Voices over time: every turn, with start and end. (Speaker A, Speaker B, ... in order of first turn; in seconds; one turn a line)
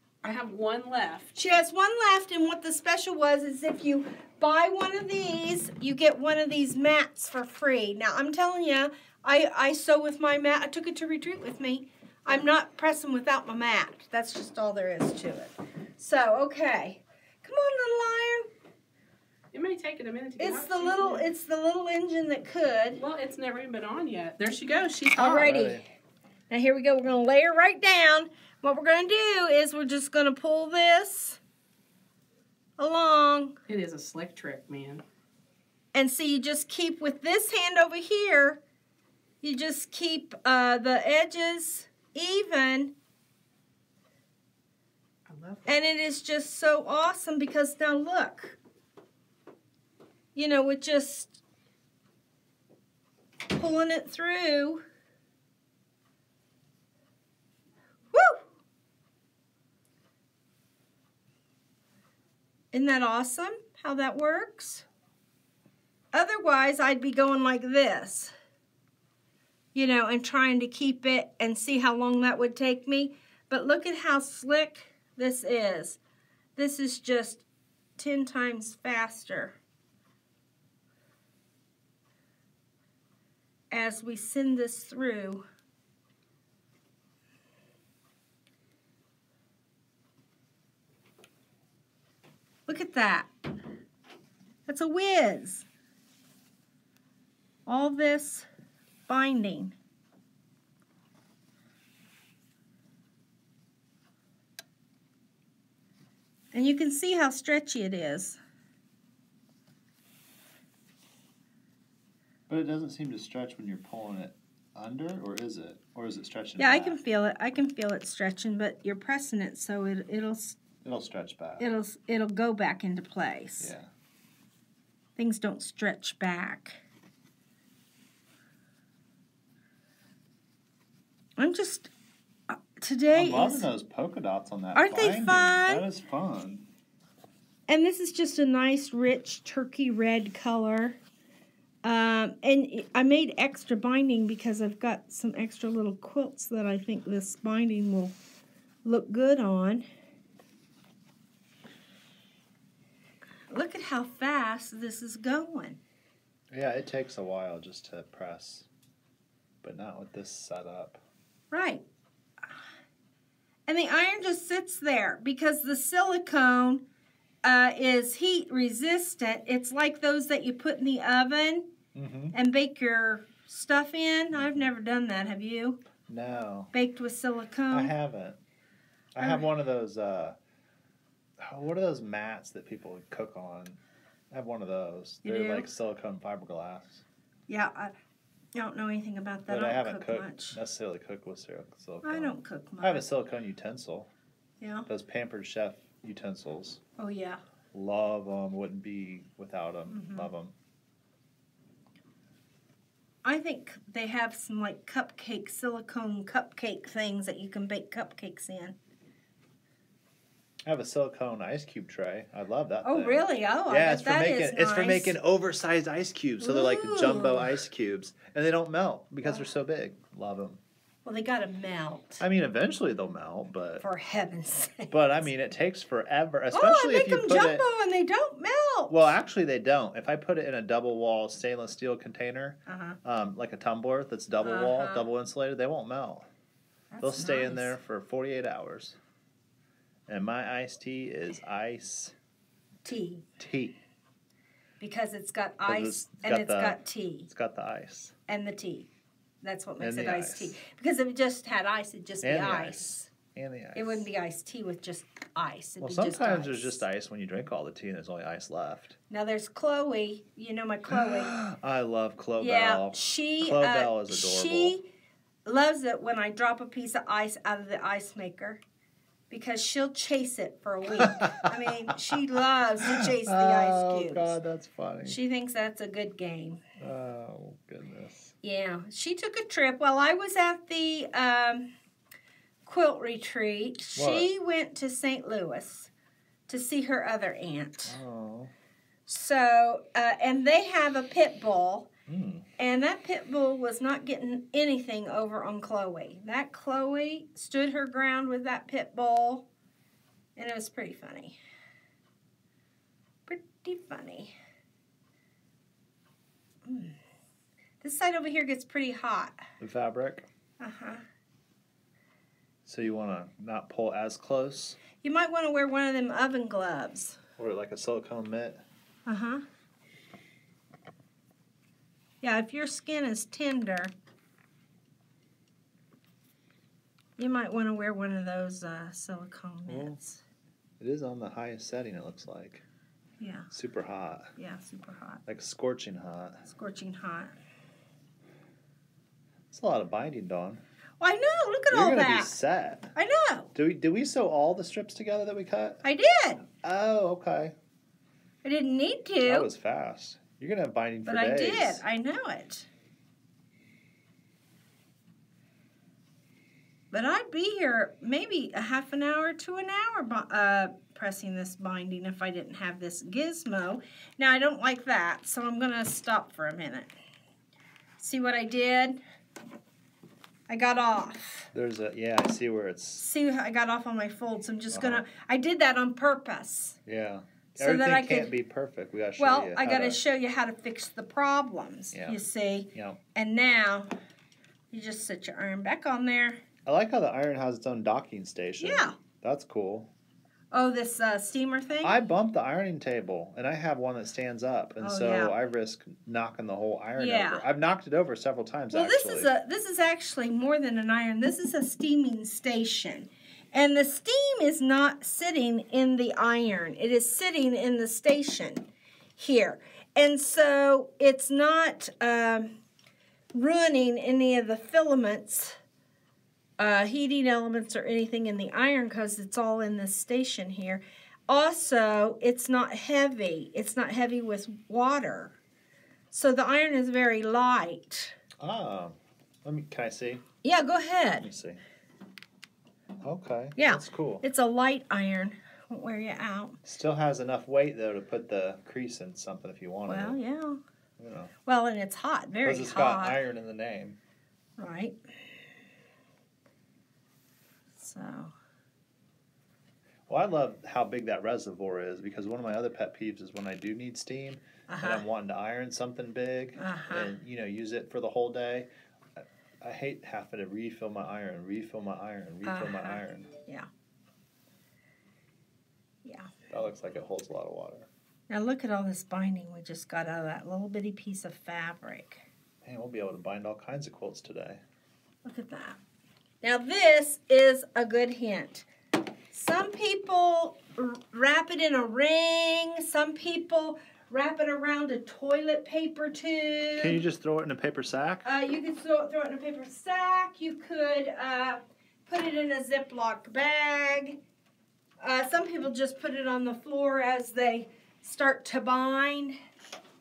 Speaker A: 0.2-1.3
Speaker B: 1.3-18.5
Speaker A: 19.5-21.3
Speaker B: 20.4-23.0
Speaker A: 22.9-25.5
Speaker B: 25.2-25.8
Speaker C: 25.2-25.8
Speaker B: 26.5-31.4
Speaker B: 32.8-33.5
Speaker A: 33.7-35.0
Speaker B: 35.9-38.6
Speaker B: 39.4-42.9
Speaker A: 45.3-45.7
Speaker B: 45.6-48.6
Speaker B: 50.3-51.4
Speaker B: 53.5-54.8
Speaker B: 58.1-58.4
Speaker B: 62.7-64.8
Speaker B: 66.1-68.3
Speaker B: 69.7-76.0
Speaker B: 76.5-77.4
Speaker B: 78.0-79.6
Speaker B: 83.7-85.4
Speaker B: 92.7-93.3
Speaker B: 94.7-95.7
Speaker B: 97.7-98.5
Speaker B: 99.1-99.7
Speaker B: 106.5-108.4
Speaker C: 112.5-117.0
Speaker B: 116.6-120.6
Speaker C: 120.8-121.7
Speaker B: 121.6-123.7
Speaker C: 123.6-123.9
Speaker B: 125.2-126.8
Speaker B: 131.4-131.9
Speaker B: 132.5-133.7
Speaker C: 133.1-136.7
Speaker B: 134.7-135.8
Speaker B: 137.7-141.0
Speaker B: 141.8-148.2
Speaker B: 148.8-149.8
Speaker B: 153.5-155.8
Speaker C: 156.5-158.7
Speaker C: 159.6-161.0
Speaker B: 161.5-161.8
Speaker B: 163.7-166.8
Speaker B: 167.4-171.7
Speaker C: 171.9-172.3
Speaker B: 172.3-175.8
Speaker C: 174.3-174.7
Speaker C: 176.1-176.7
Speaker B: 176.7-177.9
Speaker C: 177.7-178.4
Speaker C: 179.1-180.4
Speaker C: 181.4-183.8
Speaker C: 184.3-187.0
Speaker B: 185.2-185.7
Speaker B: 187.5-187.9
Speaker B: 188.5-190.6
Speaker C: 189.5-194.1
Speaker B: 192.0-193.1
Speaker B: 194.6-194.9
Speaker C: 194.8-196.8
Speaker B: 197.0-197.4
Speaker C: 197.7-200.5
Speaker B: 199.9-200.3
Speaker B: 203.2-208.8
Speaker C: 210.6-220.6
Speaker B: 212.8-215.2
Speaker B: 216.4-217.6
Speaker B: 221.0-222.2
Speaker C: 222.2-223.8
Speaker B: 223.8-224.9
Speaker C: 224.9-227.6
Speaker B: 226.5-229.1
Speaker C: 228.9-236.3
Speaker B: 232.7-233.0
Speaker B: 234.4-235.1
Speaker B: 236.9-237.7
Speaker C: 237.0-239.0
Speaker C: 240.1-242.1
Speaker B: 242.8-243.2
Speaker C: 243.4-243.8
Speaker B: 244.8-247.3
Speaker C: 245.6-248.1
Speaker B: 248.3-248.9
Speaker B: 249.4-253.1
Speaker C: 249.8-250.6
Speaker C: 252.2-254.1
Speaker B: 253.7-256.8
Speaker C: 255.8-259.0
Speaker B: 259.1-261.3
Speaker C: 260.9-264.8
Speaker B: 262.4-264.8
Speaker B: 265.4-268.6
Speaker B: 269.3-274.4
Speaker C: 271.0-271.5
Speaker C: 272.8-275.2
Speaker B: 275.0-276.6
Speaker C: 276.8-278.3
Speaker B: 278.4-281.7
Speaker B: 282.6-285.9
Speaker C: 283.9-284.3
Speaker B: 286.5-288.0
Speaker C: 287.9-288.5
Speaker B: 289.1-291.9
Speaker C: 292.1-292.4
Speaker B: 292.6-299.5
Speaker B: 300.4-301.4
Speaker B: 303.3-304.3
Speaker B: 306.6-306.9
Speaker B: 307.8-309.4
Speaker C: 309.6-310.3
Speaker B: 310.6-311.0
Speaker C: 312.6-314.8
Speaker B: 315.0-317.2
Speaker C: 317.4-318.6
Speaker B: 319.1-319.4
Speaker B: 322.2-323.9
Speaker B: 327.2-330.2
Speaker C: 329.7-330.0
Speaker C: 330.8-332.6
Speaker B: 333.2-333.5
Speaker C: 333.5-334.3
Speaker B: 334.4-335.2
Speaker C: 335.2-336.4
Speaker B: 336.4-337.3
Speaker C: 339.5-340.6
Speaker B: 341.0-342.3
Speaker C: 341.7-342.9
Speaker B: 342.9-343.5
Speaker C: 343.5-345.8
Speaker B: 345.8-346.4
Speaker C: 346.6-347.5
Speaker B: 348.4-349.5
Speaker C: 349.2-351.8
Speaker B: 351.1-352.7
Speaker B: 356.9-366.9
Speaker B: 368.0-369.0
Speaker B: 370.5-371.5
Speaker C: 371.5-373.0
Speaker B: 373.0-376.8
Speaker C: 374.7-375.0
Speaker C: 376.9-380.0
Speaker B: 377.6-378.3
Speaker B: 379.2-383.9
Speaker C: 381.9-382.2
Speaker C: 382.7-383.0
Speaker B: 384.7-386.4
Speaker C: 386.6-389.9
Speaker B: 388.6-388.9
Speaker B: 390.5-392.0
Speaker C: 391.8-399.3
Speaker B: 394.8-395.3
Speaker B: 396.9-397.4
Speaker B: 398.7-408.6
Speaker B: 409.2-412.6
Speaker B: 413.3-415.6
Speaker B: 416.6-425.4
Speaker B: 426.1-428.1
Speaker C: 428.4-430.2
Speaker B: 430.4-431.3
Speaker C: 431.2-431.6
Speaker C: 433.0-434.2
Speaker B: 433.6-436.6
Speaker C: 436.6-440.2
Speaker B: 439.9-440.6
Speaker C: 441.0-441.3
Speaker B: 441.4-443.2
Speaker C: 442.4-444.0
Speaker B: 444.6-445.0
Speaker B: 447.8-448.3
Speaker C: 450.1-463.3
Speaker B: 454.7-455.0
Speaker B: 456.6-457.1
Speaker B: 462.4-463.7
Speaker B: 466.0-466.3
Speaker C: 466.5-467.9
Speaker B: 468.3-472.2
Speaker C: 472.6-474.6
Speaker B: 475.2-475.8
Speaker B: 476.4-478.7
Speaker B: 479.3-487.0
Speaker C: 486.8-488.2
Speaker B: 488.2-494.2
Speaker B: 495.0-499.4